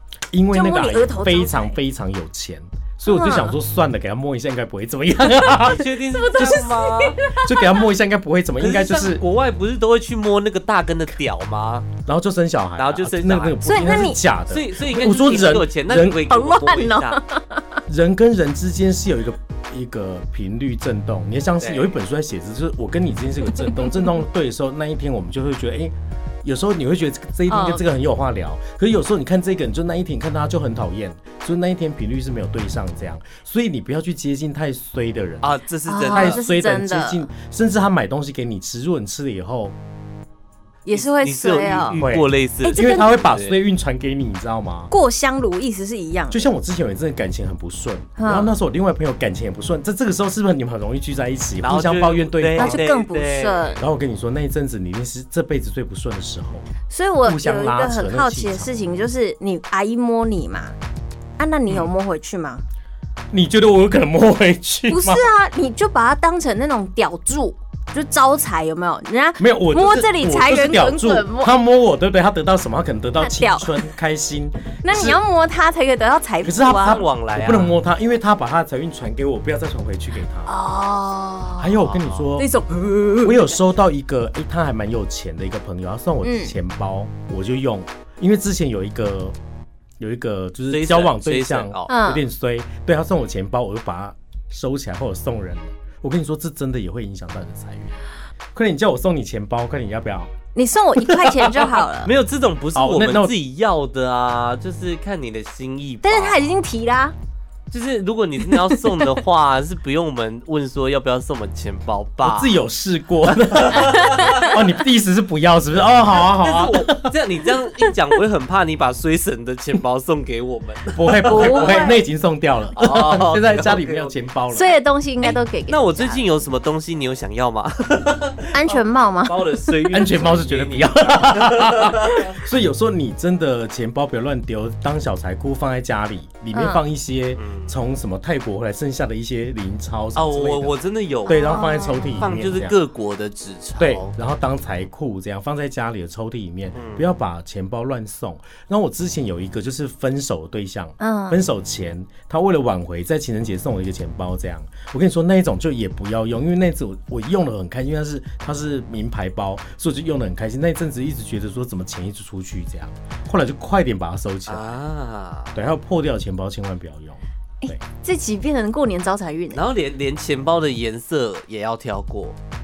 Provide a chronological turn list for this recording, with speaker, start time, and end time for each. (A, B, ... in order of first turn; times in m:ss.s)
0:00.3-0:06.7 A
0:00.5-0:01.8 B
0:03.1-0:03.6 B
0:05.3-0:07.8 B
0:05.6-0:07.2 C
0:07.3-0:09.2 A
0:08.6-0:11.9 C
0:12.0-0:16.3 A
0:12.8-0:13.8 C
0:13.6-0:14.2 B
0:14.5-0:17.2 C
0:16.3-0:17.8 B
0:17.9-0:35.5 A
0:21.6-0:22.0 C
0:27.5-0:27.8 B
0:35.4-0:36.4 C
0:35.9-0:37.3 B
0:36.1-0:39.8 A
0:40.9-0:42.0 B
0:40.9-0:43.6 C
0:42.0-0:44.9 A
0:42.6-0:43.3 B
0:44.9-0:46.5 B
0:46.3-0:52.8 A
0:48.2-0:48.6 B
0:51.6-0:53.8 C
0:52.6-0:53.8 B
0:53.8-0:56.7 A
0:56.9-1:00.8 B
0:57.2-0:58.7 A
1:01.4-1:02.6 B
1:03.3-1:05.3 A
1:04.9-1:11.6 B
1:09.4-1:15.2 A
1:13.2-1:13.9 B
1:14.8-1:17.0 B
1:16.4-1:20.5 A
1:16.6-1:17.8 C
1:20.5-1:21.8 B
1:21.6-1:22.5 A
1:21.8-1:22.2 C
1:22.4-1:23.6 B
1:23.2-1:29.4 A
1:26.2-1:26.6 B
1:30.0-1:38.0 A
1:30.7-1:31.9 C
1:31.9-1:32.3 B
1:38.6-1:40.3 A
1:40.6-1:42.1 B
1:41.0-1:41.7 A
1:42.0-1:46.5 C
1:42.7-1:43.3 A
1:46.0-1:47.2 B
1:47.7-1:52.6 C
1:52.2-1:57.2 A
1:53.3-1:54.5 C
1:53.8-1:54.5 B
1:56.2-2:01.8 C
2:00.9-2:04.7 A
2:01.2-2:02.1 B
2:02.8-2:04.2 C
2:04.5-2:06.2 B
2:05.2-2:12.3 C
2:08.5-2:09.7 B
2:09.9-2:22.8 A
2:16.5-2:16.8 B
2:17.4-2:17.8 C
2:20.1-2:24.1 C
2:21.3-2:22.3 B
2:23.8-2:44.8 A
2:26.8-2:27.0 C
2:31.0-2:31.4 B
2:44.5-2:45.6 C
2:45.6-2:47.8 A
2:47.6-2:49.6 B
2:49.5-2:52.4 C